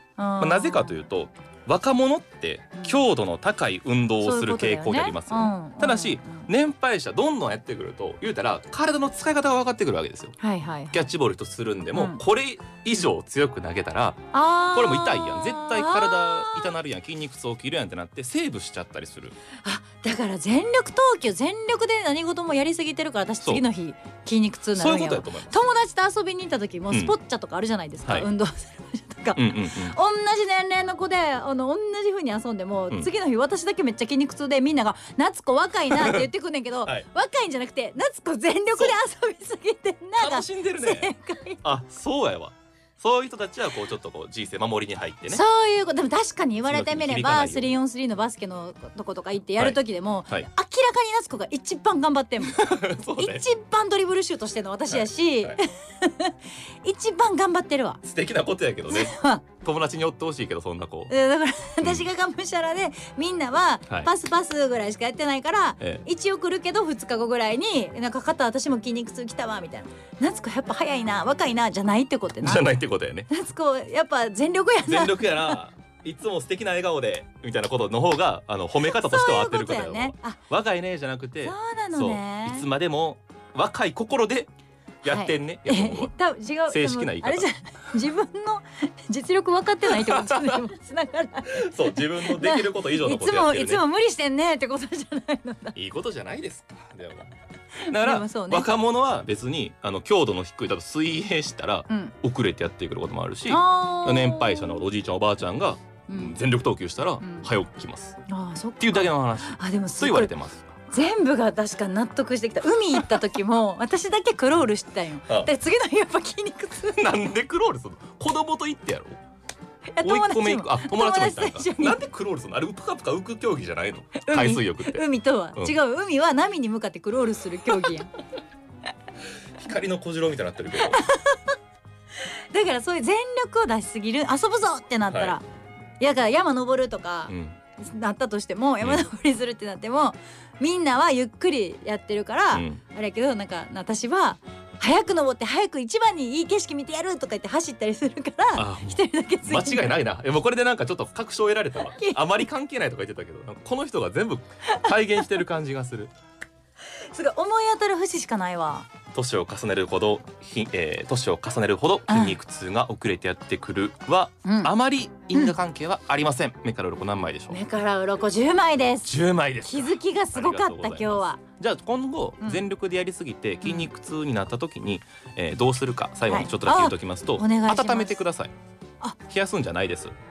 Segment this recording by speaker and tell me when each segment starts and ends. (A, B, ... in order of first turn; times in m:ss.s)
0:00.2-0:01.0 A
0:00.4-0:10.4 B
0:04.2-0:06.5 A
0:10.4-0:11.1 A
0:10.9-0:19.4 B
0:12.0-0:12.2 A
0:14.3-0:16.8 A
0:19.6-0:41.6 A
0:24.8-0:25.6 B
0:29.4-0:30.0 B
0:36.0-0:36.2 B
0:40.2-0:45.4 B
0:45.3-0:58.0 A
0:46.7-0:47.7 B
0:52.4-0:53.4 B
0:54.9-0:55.6 B
0:58.0-1:01.1 B
0:58.9-0:59.5 A
1:01.1-1:12.7 A
1:12.4-1:13.3 B
1:13.3-1:15.6 A
1:14.8-1:24.5 B
1:18.8-1:20.4 A
1:21.4-1:22.7 A
1:25.0-1:26.1 B
1:25.0-1:35.8 A
1:26.7-1:27.5 B
1:29.9-1:30.6 B
1:31.4-1:33.8 B
1:35.7-1:37.3 B
1:37.8-1:38.7 A
1:37.9-1:48.2 B
1:41.9-1:42.2 A
1:43.5-1:44.9 A
1:46.1-1:46.4 A
1:47.2-1:47.5 A
1:48.3-1:50.3 A
1:48.8-1:50.7 B
1:50.9-1:57.1 A
1:56.9-1:59.2 B
2:00.0-2:02.0 A
2:00.0-2:05.0 B
2:04.2-2:08.1 A
2:09.6-2:11.0 B
2:10.8-2:11.6 A
2:12.2-2:15.4 A
2:15.1-2:15.4 B
2:16.0-2:30.0 A
2:17.3-2:17.6 B
2:18.8-2:19.1 B
2:22.5-2:22.8 B
2:28.6-2:36.1 B
2:31.9-2:32.2 A
2:34.7-2:35.3 A
2:37.0-2:38.9 A
2:39.1-2:47.6 B
2:42.1-2:42.4 A
2:44.4-2:44.7 A
2:47.5-2:51.4 A
2:49.0-2:58.5 B
2:52.4-2:52.7 A
2:53.6-2:53.9 A
2:56.3-2:58.2 A
2:59.3-3:00.1 B